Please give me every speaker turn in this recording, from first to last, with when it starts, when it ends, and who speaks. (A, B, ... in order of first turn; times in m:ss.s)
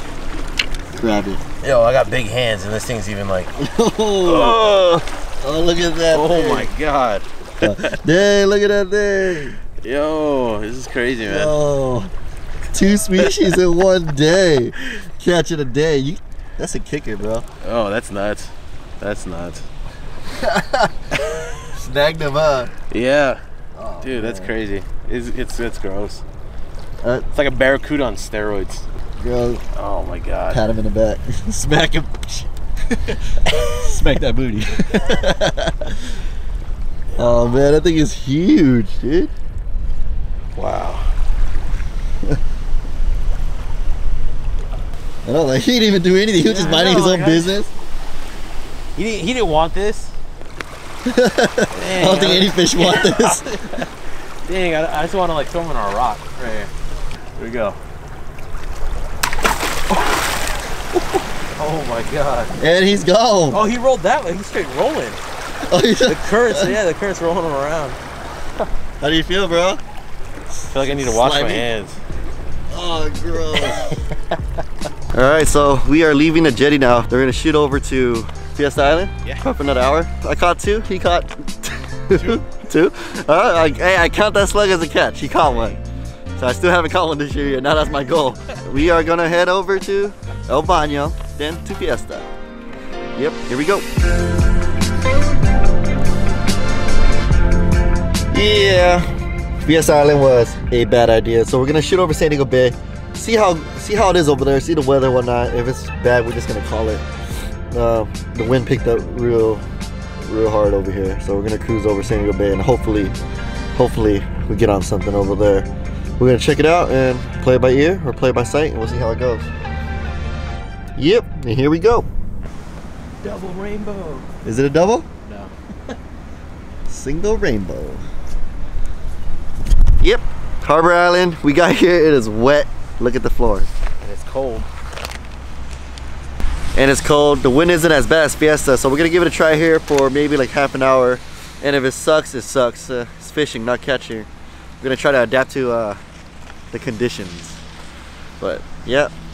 0:01.0-0:01.4 A
0:01.6-0:03.5 B
0:03.6-0:06.7 A
0:04.2-0:04.7 B
0:06.1-0:08.0 B
0:07.6-0:09.6 A
0:09.8-0:11.5 B
0:11.2-0:12.1 A
0:12.7-0:17.4 A
0:13.2-0:13.6 B
0:17.6-0:19.6 B
0:20.3-0:20.9 A
0:21.7-0:22.7 A
0:22.9-0:23.4 B
0:23.8-0:24.5 A
0:24.0-0:26.2 B
0:27.3-0:28.8 B
0:29.2-0:29.6 A
0:29.7-0:30.6 B
0:30.5-0:32.5 A
0:33.6-0:36.1 A
0:37.1-0:37.5 B
0:37.2-0:39.3 A
0:40.6-0:41.1 B
0:45.2-0:47.7 A
0:46.4-0:47.6 B
0:49.0-0:50.2 B
0:51.0-0:53.5 A
0:51.7-0:53.9 B
0:54.4-0:56.7 B
0:57.4-0:57.8 B
1:01.6-1:02.5 B
1:02.6-1:03.6 A
1:03.5-1:05.2 B
1:05.7-1:06.8 A
1:06.0-1:08.0 B
1:09.0-1:09.8 A
1:10.7-1:12.0 B
1:10.8-1:11.7 A
1:12.7-1:14.0 A
1:13.6-1:14.0 B
1:15.1-1:25.8 A
1:22.1-1:22.4 B
1:25.4-1:25.8 B
1:26.4-1:32.3 A
1:33.1-1:33.9 A
1:38.3-1:39.1 A
1:39.6-1:47.0 A
1:47.7-1:49.6 A
1:50.2-1:53.2 A
1:53.7-1:55.7 A
1:56.2-1:59.5 A
2:01.0-2:02.1 A
2:03.2-2:04.3 B
2:04.4-2:05.1 A
2:05.2-2:05.5 B
2:06.9-2:08.0 A
2:10.0-2:13.7 A
2:14.0-2:14.7 B
2:16.8-2:24.3 A
2:24.8-2:26.0 A
2:26.7-2:27.6 A
2:28.4-2:29.1 A